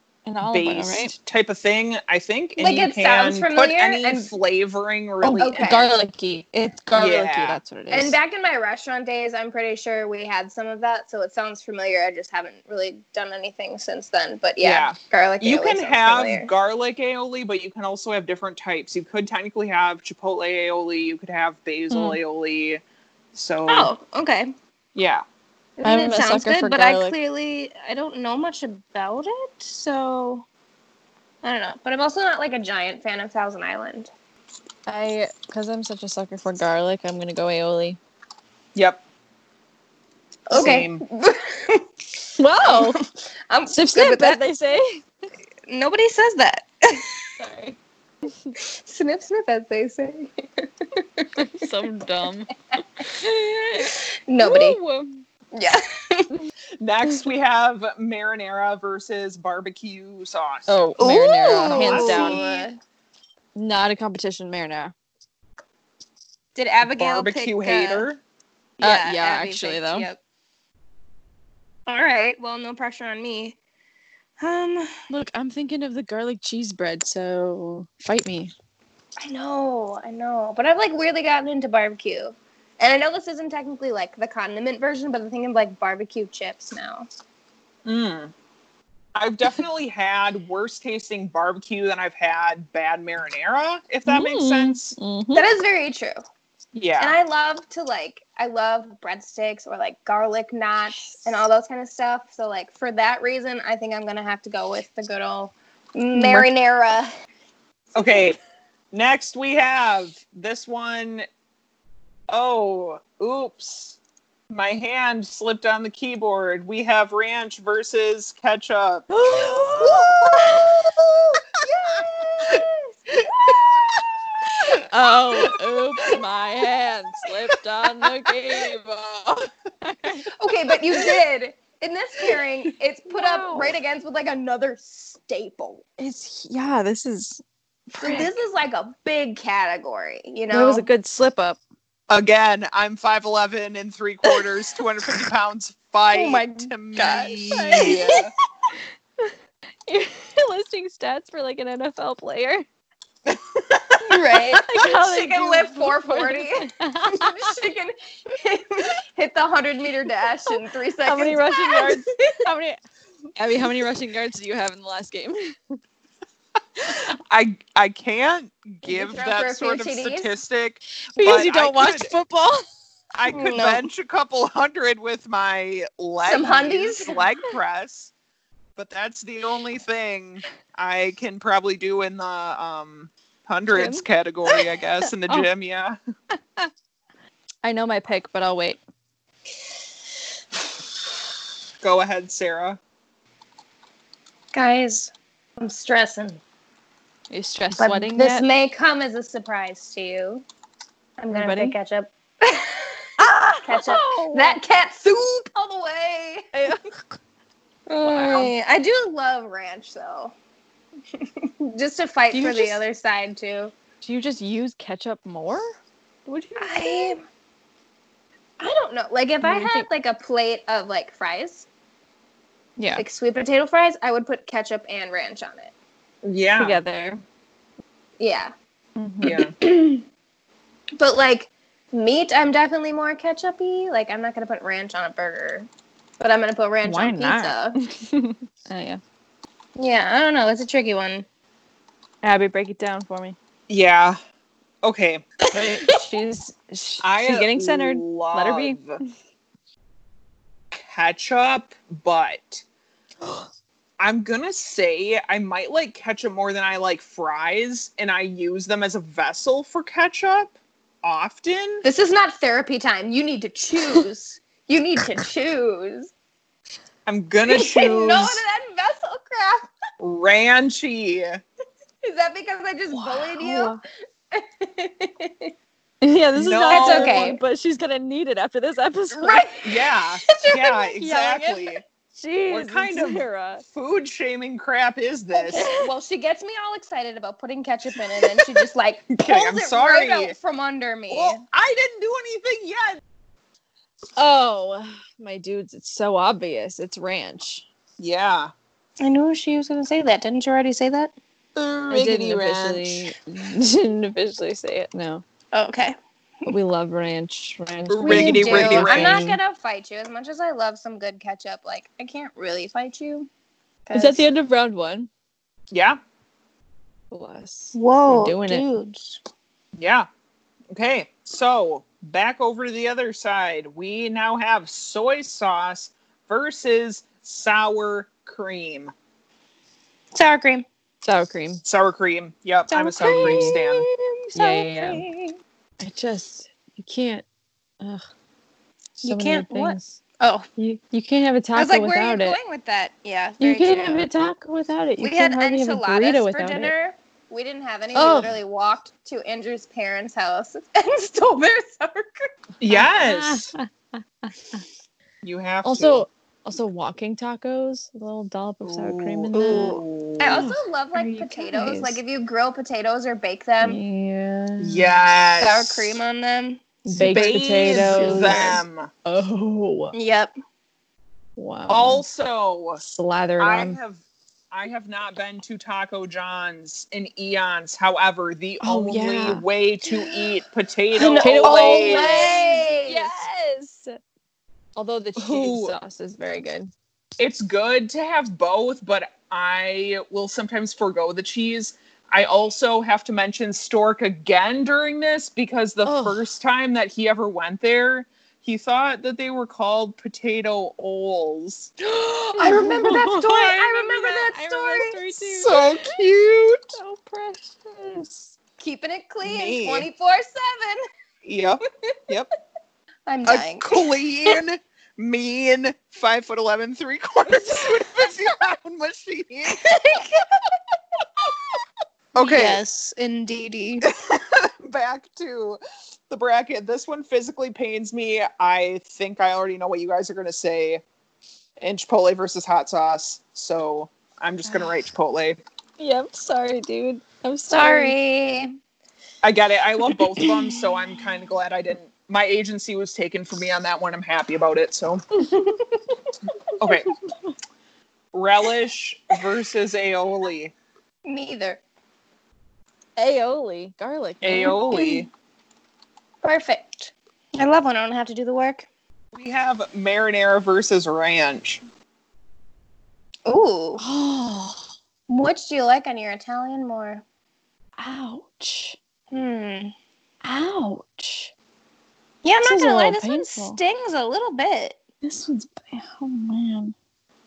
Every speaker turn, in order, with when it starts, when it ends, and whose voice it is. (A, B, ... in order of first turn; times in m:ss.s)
0:00.2-0:01.1 A
0:00.4-0:05.7 B
0:02.6-0:04.3 C
0:05.2-0:08.2 A
0:05.3-0:05.9 C
0:06.9-0:07.6 B
0:07.9-0:16.5 C
0:14.6-0:22.8 B
0:21.9-0:22.2 A
0:23.3-0:23.9 B
0:23.7-0:24.5 C
0:24.9-0:25.2 B
0:25.8-0:30.4 C
0:25.8-0:27.2 A
0:31.4-0:34.1 C
0:34.9-0:38.0 A
0:38.7-0:39.0 B
0:40.5-0:41.8 C
0:40.5-0:41.0 B
0:42.4-0:43.0 A
0:42.6-0:44.4 C
0:43.7-0:45.0 A
0:45.7-0:47.2 C
0:47.4-0:48.5 A
0:48.6-0:51.6 C
0:51.4-0:55.2 A
0:53.8-0:54.8 C
0:55.5-0:56.3 C
0:56.8-1:02.4 B
1:00.7-1:02.6 A
1:01.0-1:02.8 C
1:03.6-1:04.9 A
1:06.5-1:08.0 C
1:06.8-1:08.2 B
1:08.8-1:10.2 C
1:08.8-1:10.1 A
1:11.9-1:13.6 C
1:14.4-1:14.9 C
1:15.1-1:18.5 A
1:19.2-1:27.1 C
1:27.8-1:28.3 B
1:29.1-1:35.0 B
1:34.0-1:35.5 A
1:35.3-1:36.2 C
1:36.7-1:37.2 B
1:37.0-1:47.1 C
1:46.2-1:46.4 A
1:47.9-1:48.4 B
1:48.9-1:51.2 B
1:52.3-1:54.0 B
1:54.5-2:02.6 B
1:59.1-2:00.8 A
2:01.6-2:02.7 C
2:03.2-2:04.0 B
2:04.7-2:10.3 A
2:10.4-2:15.8 C
2:13.1-2:13.7 A
2:16.0-2:18.3 A
2:18.0-2:20.8 C
2:20.5-2:21.6 A
2:22.1-2:28.3 B
2:26.1-2:28.3 C
2:27.5-2:28.2 A
2:29.9-2:32.6 A
2:33.3-2:34.2 B
2:34.0-2:42.4 C
2:34.5-2:37.5 A
2:41.0-2:42.8 A
2:43.4-2:45.8 A
2:46.8-2:52.1 B
2:48.8-2:50.4 C
2:51.2-2:52.6 A
2:53.1-2:58.1 B
2:53.3-2:53.9 C
2:56.2-2:57.2 C
2:58.8-3:06.0 B
3:03.7-3:04.6 A
3:05.2-3:05.5 A
3:06.3-3:06.7 A
3:07.6-3:08.8 A
3:11.8-3:12.8 B
3:14.5-3:16.4 C
3:17.3-3:18.4 A
3:17.8-3:20.4 C
3:21.2-3:23.1 C
3:21.3-3:21.8 A
3:23.2-3:24.6 A
3:23.6-3:26.5 C
3:26.5-3:27.2 A
3:27.9-3:30.3 C
3:28.0-3:28.5 A
3:31.2-3:33.7 C
3:32.3-3:32.8 A
3:34.0-3:35.7 A
3:36.2-3:37.2 A
3:36.6-3:37.2 C
3:38.6-3:41.6 C
3:39.4-3:39.9 A
3:42.8-3:43.0 A
3:43.0-3:45.7 C
3:46.2-3:46.8 B
3:46.6-3:47.2 A
3:48.2-3:48.5 C
3:49.0-3:49.4 A
3:49.2-3:49.5 B
3:49.2-3:50.0 C
3:51.0-3:55.7 C
3:56.2-3:57.8 C
3:56.8-3:59.0 A
3:59.8-4:01.2 C
4:02.2-4:03.4 A
4:03.7-4:04.2 B
4:04.8-4:05.2 B
4:05.5-4:09.1 A
4:07.0-4:09.0 B
4:10.7-4:12.6 B
4:14.0-4:21.8 B
4:21.8-4:26.1 C
4:27.0-4:28.4 B
4:27.5-4:29.7 C
4:30.0-4:31.4 B
4:32.0-4:33.8 C
4:32.9-4:33.8 A
4:34.3-4:35.5 C
4:36.0-4:39.5 A
4:36.3-4:37.2 B
4:36.7-4:37.4 C
4:39.1-4:41.7 C
4:39.6-4:41.8 B
4:41.0-4:41.5 A
4:42.1-4:43.6 A
4:42.5-4:45.7 B
4:45.3-4:51.4 C
4:45.5-4:45.9 A
4:49.2-4:50.3 B
4:51.1-4:53.0 B
4:54.2-4:57.6 A
4:58.0-4:58.5 B
4:59.0-5:01.1 C
5:01.6-5:03.1 B
5:01.9-5:05.2 A
5:05.5-5:06.5 C
5:06.5-5:09.4 A
5:07.9-5:09.3 B
5:08.0-5:13.3 C
5:13.8-5:14.2 C
5:13.9-5:15.1 A
5:15.7-5:16.0 B
5:17.1-5:18.7 A
5:17.7-5:19.2 C
5:19.8-5:20.1 B
5:20.7-5:28.9 B
5:30.1-5:30.6 C
5:31.0-5:31.6 A
5:31.6-5:33.8 B
5:32.7-5:35.3 C
5:33.0-5:33.6 A
5:34.3-5:35.0 A
5:35.8-5:37.2 A
5:39.0-5:40.0 A
5:39.0-5:40.5 C
5:40.6-5:42.4 A
5:41.5-5:44.0 C
5:43.4-5:46.7 A
5:45.0-5:52.3 C
5:47.9-5:48.4 A
5:52.6-5:53.5 B
5:52.7-5:53.6 A
5:54.2-5:54.6 A
5:55.2-5:56.0 B
5:55.6-5:59.8 A
5:58.6-6:00.5 B
5:59.3-6:03.8 C
6:00.3-6:02.0 A
6:03.6-6:04.9 A
6:04.6-6:06.0 B
6:05.4-6:08.6 C
6:06.8-6:09.9 A
6:06.9-6:08.9 B
6:09.9-6:10.3 C
6:11.4-6:12.0 A
6:11.7-6:12.8 B
6:12.8-6:13.8 A
6:13.4-6:22.4 B
6:18.6-6:19.4 A
6:20.9-6:23.2 C
6:21.2-6:24.0 A
6:24.8-6:26.7 A
6:25.2-6:25.7 B
6:27.2-6:41.7 B
6:35.8-6:36.2 A
6:41.8-6:45.3 C
6:42.4-6:45.9 A
6:45.3-6:46.7 B
6:46.7-6:48.3 A
6:48.6-6:50.8 C
6:49.2-6:49.9 B
6:51.2-6:52.3 B
6:53.1-6:54.4 C
6:53.2-6:59.7 B
6:57.3-6:57.7 A
6:59.5-7:00.5 C
7:02.1-7:02.6 B
7:02.2-7:03.9 C
7:03.8-7:10.8 B
7:11.6-7:15.4 B
7:15.8-7:17.9 A
7:17.5-7:18.5 C
7:19.2-7:25.0 B
7:20.2-7:20.6 A
7:25.3-7:25.8 C
7:26.6-7:26.9 B
7:28.1-7:30.5 B
7:31.0-7:31.6 C
7:33.0-7:35.0 A
7:34.2-7:35.1 B
7:34.7-7:34.9 C
7:36.2-7:38.7 C
7:39.1-7:41.6 B
7:43.2-7:43.8 C
7:43.8-7:44.7 A
7:45.1-7:47.0 C
7:47.8-7:48.8 A
7:49.1-7:49.7 C
7:50.2-7:51.3 A
7:52.2-7:54.8 C
7:52.4-7:53.6 A
7:55.0-7:56.7 A